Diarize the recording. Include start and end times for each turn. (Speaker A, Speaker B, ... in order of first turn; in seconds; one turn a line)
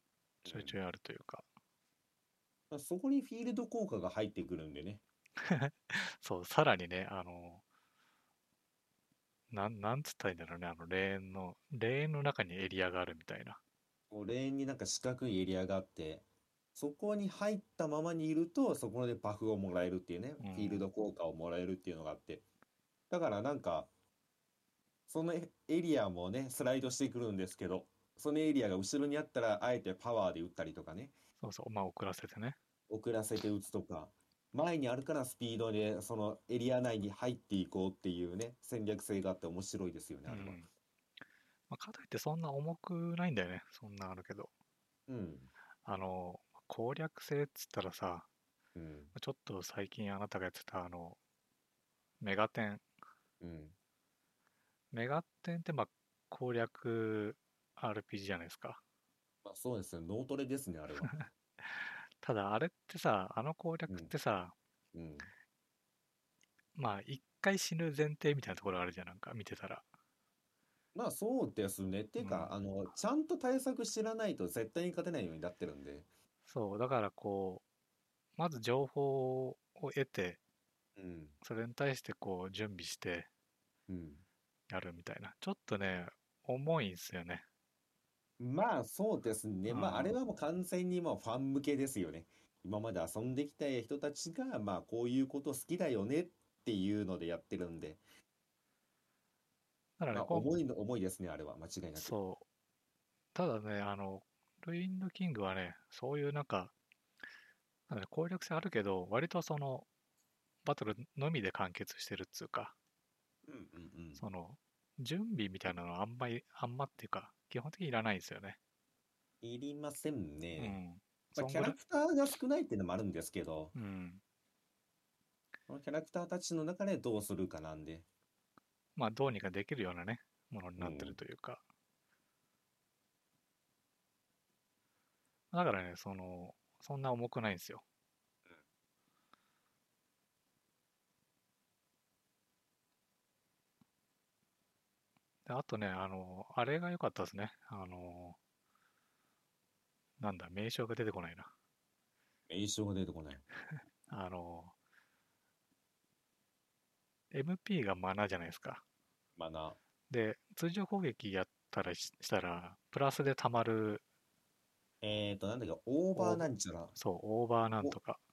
Speaker A: 0.4-1.4
Speaker B: 0.5-0.8
Speaker B: 2.7-5.0
Speaker A: 5.4-7.6
Speaker A: 9.5-13.6
Speaker B: 14.1-16.2
Speaker B: 16.8-22.4
Speaker A: 20.4-20.8
Speaker B: 23.1-23.9
Speaker B: 25.1-31.1
Speaker A: 31.4-32.6
Speaker B: 32.9-40.6
Speaker A: 40.3-40.7
Speaker A: 41.7-44.5
Speaker B: 45.1-45.5
Speaker A: 45.8-48.3
Speaker B: 48.8-49.1
Speaker A: 49.1-51.2
Speaker A: 52.2-52.8
Speaker B: 53.4-53.7
Speaker A: 54.9-58.8
Speaker B: 59.4-61.1
Speaker A: 61.0-64.5
Speaker B: 64.9-65.3
Speaker A: 66.8-69.8
Speaker B: 70.9-76.1
Speaker A: 72.2-72.5
Speaker A: 76.5-77.6
Speaker A: 78.4-80.4
Speaker B: 81.0-81.3
Speaker A: 81.4-83.3
Speaker B: 83.9-84.2
Speaker A: 84.7-87.4
Speaker B: 88.4-98.0
Speaker A: 89.7-90.2
Speaker A: 100.0-100.5
Speaker B: 100.1-102.1
Speaker A: 102.0-102.4
Speaker A: 103.3-106.7
Speaker A: 107.9-109.8
Speaker A: 110.6-112.7
Speaker B: 113.5-114.2
Speaker A: 114.2-118.6
Speaker B: 119.4-120.8
Speaker A: 120.6-121.8
Speaker B: 121.3-123.7
Speaker A: 123.7-124.2
Speaker B: 125.7-128.0
Speaker A: 128.9-131.6
Speaker B: 130.8-131.2
Speaker A: 135.5-137.8
Speaker A: 145.4-148.4
Speaker A: 150.2-151.5
Speaker B: 152.5-153.4
Speaker A: 153.7-154.7
Speaker A: 157.3-158.8
Speaker B: 159.4-159.8
Speaker A: 160.1-164.0
Speaker B: 165.0-166.9
Speaker A: 166.1-168.2